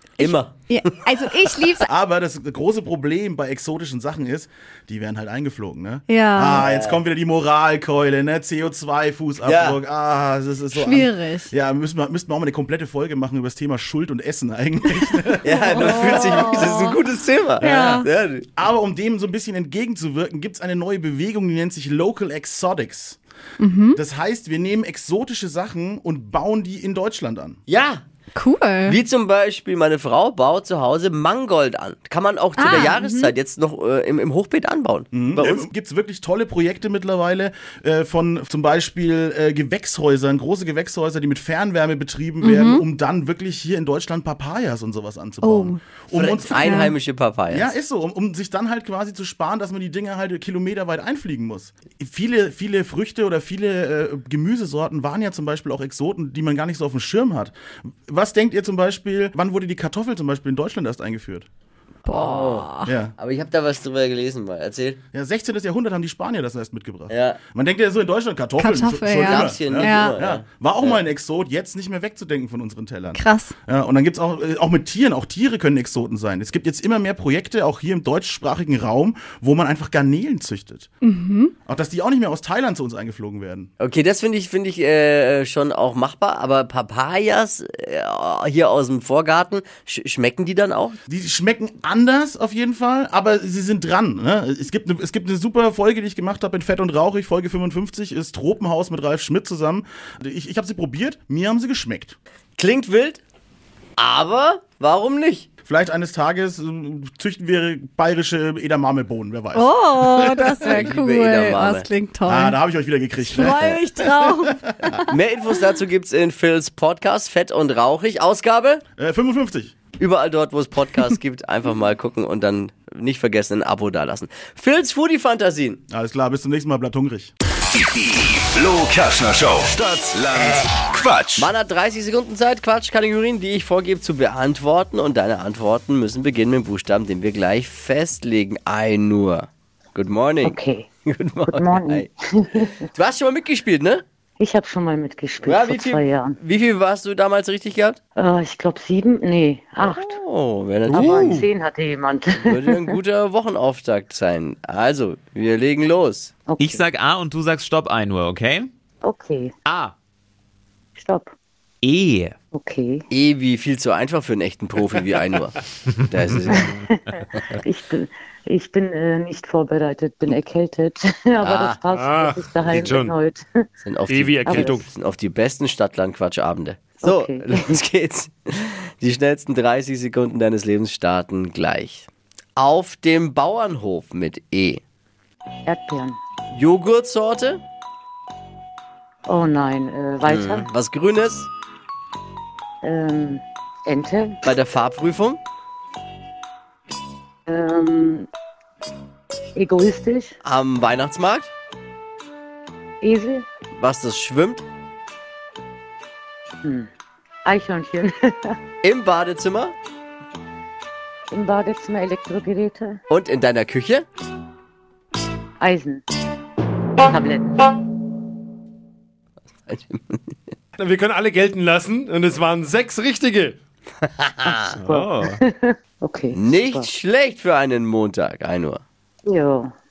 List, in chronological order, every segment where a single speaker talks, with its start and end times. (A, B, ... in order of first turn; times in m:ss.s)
0:00.2-0:00.9 A
0:00.2-0:01.9 B
0:01.9-0:16.7 C
0:06.1-0:06.6 B
0:06.6-0:07.0 A
0:09.4-0:09.8 A
0:10.7-0:11.5 B
0:15.4-0:18.5 A
0:15.5-0:17.0 B
0:17.6-0:18.1 B
0:17.6-0:23.2 C
0:23.6-0:24.0 B
0:23.9-0:27.6 C
0:27.7-0:28.0 A
0:28.3-0:29.0 B
0:28.8-0:35.7 A
0:32.6-0:33.3 B
0:35.1-0:46.9 C
0:42.4-0:42.8 B
0:45.4-0:45.8 B
0:46.1-0:47.7 A
0:46.5-0:46.9 B
0:47.5-0:57.6 C
0:58.1-1:01.5 C
1:02.0-1:02.9 B
1:02.1-1:05.0 A
1:02.8-1:03.1 C
1:05.1-1:20.9 C
1:07.1-1:07.4 A
1:08.6-1:10.2 B
1:09.2-1:11.0 A
1:13.1-1:13.5 B
1:21.0-1:21.5 B
1:21.6-1:23.7 C
1:23.8-1:31.0 A
1:31.1-1:42.2 C
1:42.6-1:43.2 A
1:44.0-1:45.5 A
1:45.6-1:50.7 C
1:49.5-1:52.6 B
1:50.6-1:51.9 A
1:52.3-1:55.0 C
1:53.3-1:55.1 B
1:55.1-1:58.8 A
1:59.0-1:59.8 C
2:00.0-2:05.8 A
2:05.9-2:07.3 C
2:07.7-2:11.5 D
2:11.4-2:24.0 A
2:20.4-2:20.9 E
2:21.5-2:22.7 E
2:24.4-2:26.4 E
2:25.4-2:28.0 A
2:28.2-2:30.2 E
2:29.8-2:31.4 A
2:30.9-2:32.9 E
2:32.4-2:36.3 A
2:36.5-2:36.8 E
2:36.6-2:38.7 F
2:39.0-2:39.5 E
2:39.7-2:39.9 F
2:41.0-2:41.3 E
2:41.8-2:42.3 F
2:42.5-2:43.0 E
2:43.1-2:46.7 A
2:46.5-2:47.0 E
2:47.5-2:53.4 E
2:51.4-2:51.8 A
2:51.9-2:53.1 G
2:53.8-3:04.8 A
2:54.1-2:54.8 G
2:54.4-2:54.8 E
2:57.0-2:57.8 E
3:05.6-3:06.2 E
3:06.5-3:07.6 A
3:09.3-3:10.7 E
3:10.2-3:11.5 A
3:12.8-3:14.4 E
3:14.4-3:15.4 A
3:17.5-3:18.3 E
3:19.5-3:20.3 E
3:20.4-3:21.5 A
3:23.0-3:23.4 E
3:23.8-3:24.6 A
3:26.6-3:26.9 E
3:27.4-3:28.6 E
3:28.8-3:29.7 A
3:31.3-3:33.0 E
3:33.1-3:34.0 A
3:35.6-3:36.0 E
3:37.0-3:37.8 E
3:39.6-3:40.2 A
3:40.8-3:43.5 G
3:44.0-3:44.6 A
3:44.4-3:46.9 E
3:44.8-3:45.4 F
3:46.3-3:48.8 A
3:49.2-3:49.7 E